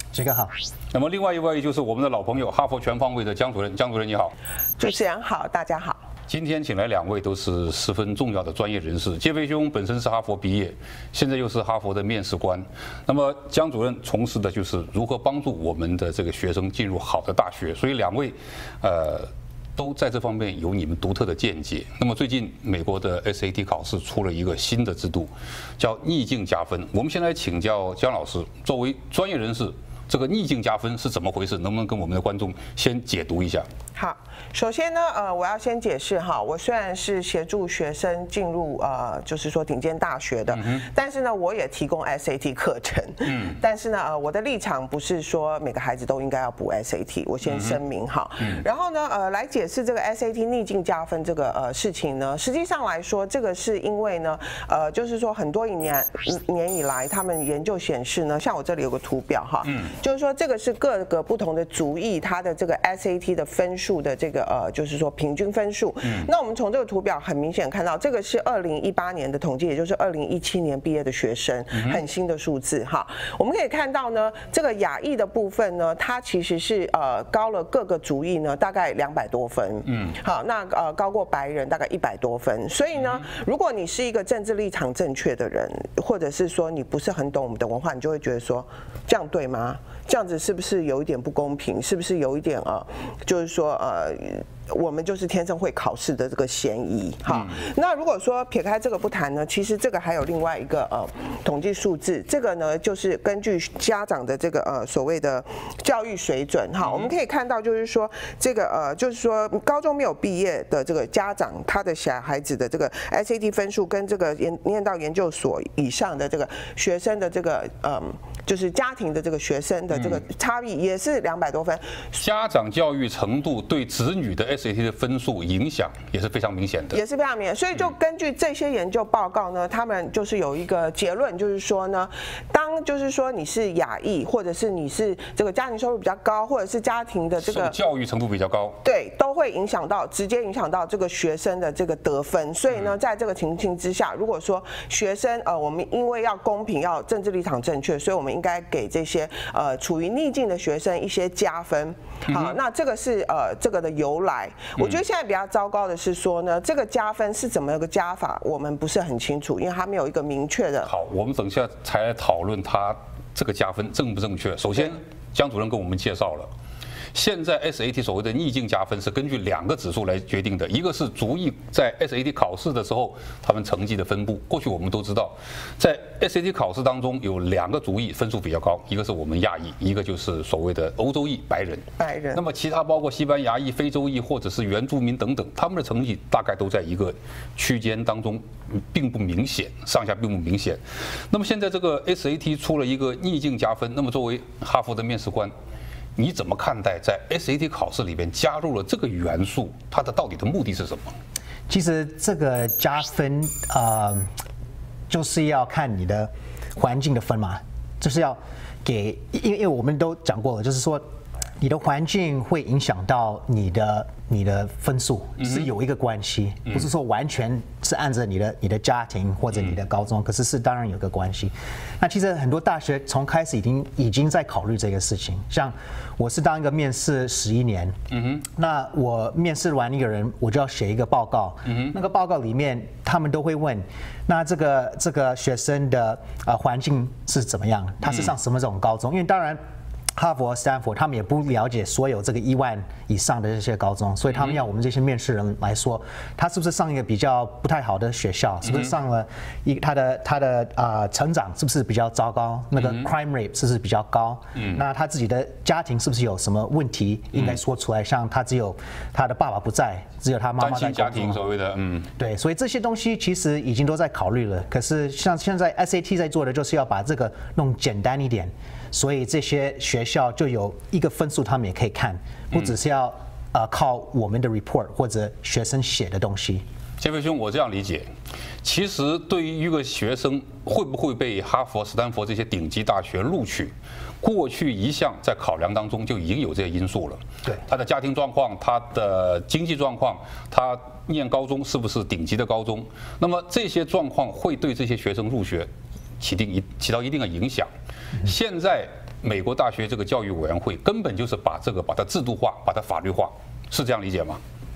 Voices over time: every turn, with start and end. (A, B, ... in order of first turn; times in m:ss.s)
0:00.1-0:00.5 A
0:00.9-0:04.4 B
0:04.8-0:06.0 C
0:06.3-0:33.7 B
0:34.0-2:02.1 C
0:40.5-0:40.8 B
0:43.2-0:43.6 B
0:47.5-0:47.8 B
1:11.7-1:12.0 B
1:19.9-1:20.1 B
1:59.9-2:00.2 B
2:02.1-2:07.0 B
2:06.9-2:17.8 C
2:17.4-2:18.8 B
2:18.8-2:40.9 C
2:32.3-2:32.5 B
2:40.8-2:46.5 B
2:47.1-3:15.5 B
3:02.0-3:02.4 C
3:16.2-3:21.2 B
3:21.7-3:24.3 A
3:25.1-3:31.0 A
3:31.6-3:59.6 A
3:35.4-3:35.7 B
3:48.1-3:48.4 B
3:51.7-3:51.9 B
4:00.1-4:21.4 A
4:12.8-4:13.1 B
4:20.6-4:22.1 B
4:22.2-4:36.6 A
4:37.0-4:38.1 B
4:38.6-4:55.7 B
4:56.2-5:04.4 B